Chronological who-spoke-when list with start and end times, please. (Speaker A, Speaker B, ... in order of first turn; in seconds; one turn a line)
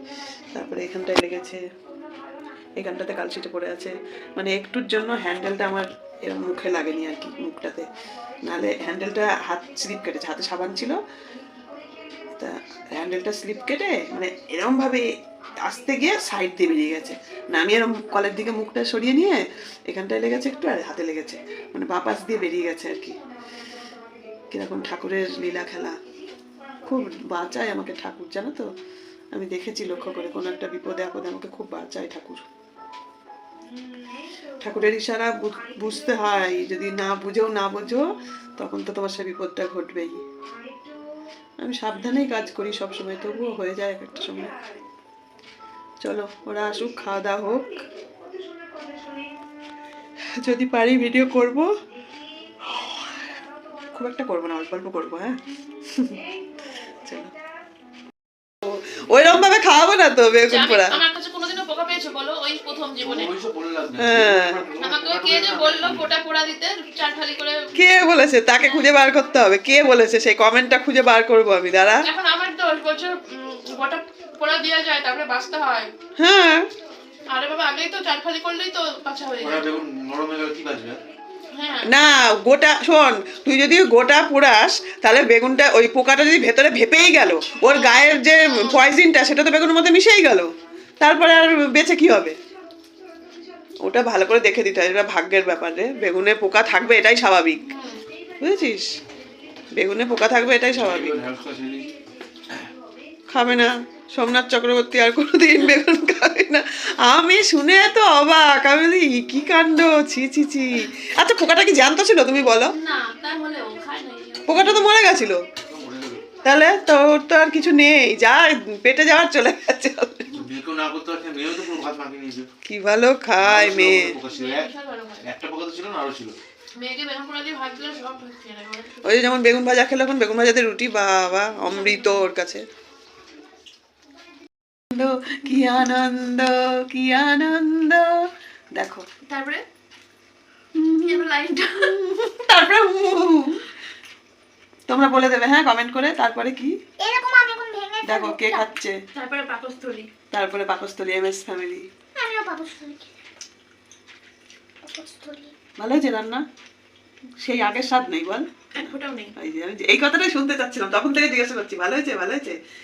Speaker A: 0.5-1.6
Speaker A: 2.8-7.9
Speaker A: 8.4-11.0
Speaker A: 12.4-15.1
Speaker A: 15.6-23.2
Speaker A: 24.5-26.0
Speaker A: 26.9-28.7
Speaker A: 29.3-32.4
Speaker A: 34.6-40.2
Speaker A: 41.6-44.5
Speaker A: 46.0-47.8
Speaker A: 50.4-51.7
Speaker A: 52.7-53.0
Speaker A: 53.9-55.4
Speaker A: 57.0-57.3
Speaker A: 58.6-61.0
Speaker B: 60.5-63.3
Speaker C: 63.0-66.1
Speaker A: 64.0-64.6
Speaker B: 64.8-67.7
Speaker A: 67.7-72.0
Speaker B: 72.0-75.9
Speaker A: 76.2-76.7
Speaker B: 77.3-79.8
Speaker C: 79.4-81.0
Speaker B: 81.5-81.9
Speaker A: 81.8-90.5
Speaker B: 87.6-88.8
Speaker A: 91.0-92.4
Speaker A: 93.8-97.6
Speaker B: 97.7-98.0
Speaker A: 98.4-98.9
Speaker A: 99.8-101.2
Speaker C: 100.7-101.9
Speaker A: 103.3-112.7
Speaker B: 112.6-114.9
Speaker A: 114.5-115.4
Speaker C: 115.7-116.3
Speaker A: 116.4-120.3
Speaker C: 120.3-122.5
Speaker A: 122.7-124.2
Speaker C: 123.4-126.4
Speaker B: 124.3-125.2
Speaker B: 126.8-129.2
Speaker A: 129.0-132.6
Speaker B: 131.7-132.2
Speaker A: 134.9-138.2
Speaker A: 138.7-139.0
Speaker B: 139.2-139.6
Speaker A: 140.8-141.2
Speaker B: 141.0-141.9
Speaker A: 141.8-143.6
Speaker A: 144.9-146.8
Speaker D: 147.0-148.7
Speaker A: 148.0-149.0
Speaker B: 149.1-150.1
Speaker A: 150.3-151.9
Speaker D: 152.2-153.2
Speaker D: 154.8-155.5
Speaker A: 155.8-156.4
Speaker A: 157.4-158.5
Speaker B: 158.7-159.3
Speaker A: 159.3-162.6